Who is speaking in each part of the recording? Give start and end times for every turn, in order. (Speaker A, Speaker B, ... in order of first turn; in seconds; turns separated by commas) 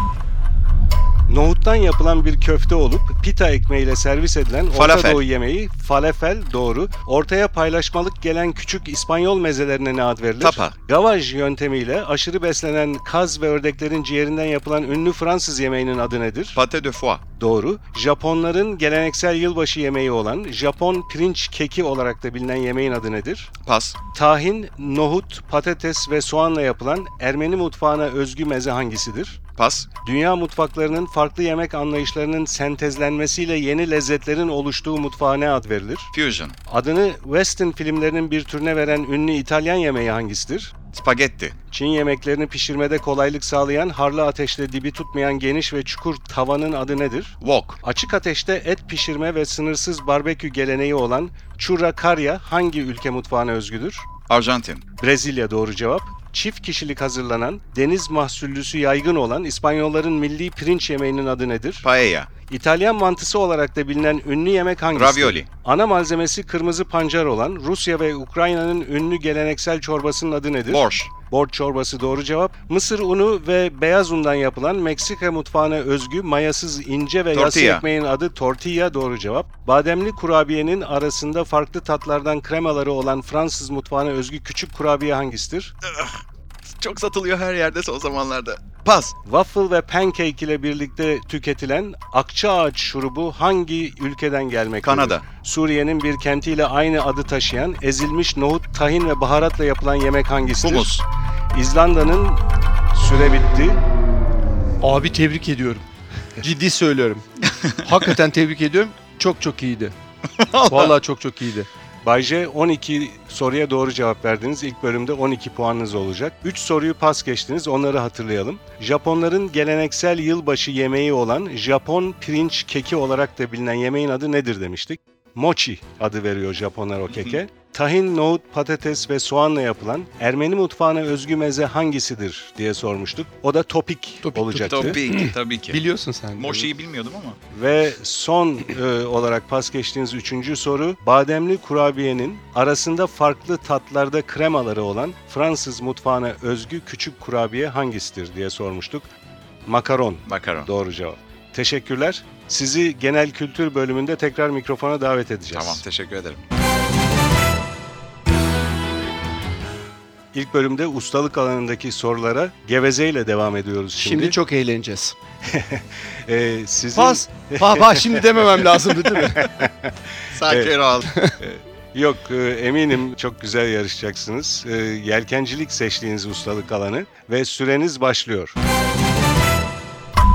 Speaker A: 1.3-16.6, Speaker B: 4.7-5.2, Speaker B: 10.4-10.8, Speaker B: 16.6-17.2, Speaker A: 17.4-23.5, Speaker B: 23.6-23.9, Speaker A: 24.1-29.4, Speaker B: 29.6-29.9, Speaker A: 30.0-36.1, Speaker B: 36.1-36.5, Speaker A: 36.7-40.7, Speaker B: 40.9-41.5, Speaker A: 41.7-54.1, Speaker B: 47.4-47.8, Speaker B: 54.3-54.8, Speaker A: 55.0-61.9, Speaker B: 61.8-62.3, Speaker A: 62.5-85.7, Speaker B: 64.9-65.5, Speaker B: 70.7-71.1, Speaker B: 77.3-77.8, Speaker B: 85.8-86.2, Speaker B: 86.8-89.1, Speaker A: 89.2-101.0, Speaker B: 94.8-95.2, Speaker B: 100.6-101.0, Speaker A: 101.5-102.4, Speaker A: 102.9-103.8, Speaker C: 104.8-105.8, Speaker C: 106.4-107.2, Speaker C: 107.8-109.9, Speaker B: 110.4-110.9, Speaker C: 110.7-111.7, Speaker A: 112.0-135.0, Speaker C: 134.2-136.7, Speaker B: 134.7-135.8, Speaker B: 136.4-137.4, Speaker A: 137.5-149.1, Speaker A: 149.7-155.8, Speaker B: 150.2-150.7, Speaker B: 155.5-156.4, Speaker A: 160.3-164.4, Speaker C: 164.0-165.1, Speaker A: 165.5-168.6, Speaker C: 166.9-169.6, Speaker A: 169.3-169.9, Speaker B: 170.3-171.1, Speaker A: 170.4-170.7, Speaker C: 171.0-171.3, Speaker A: 171.4-178.6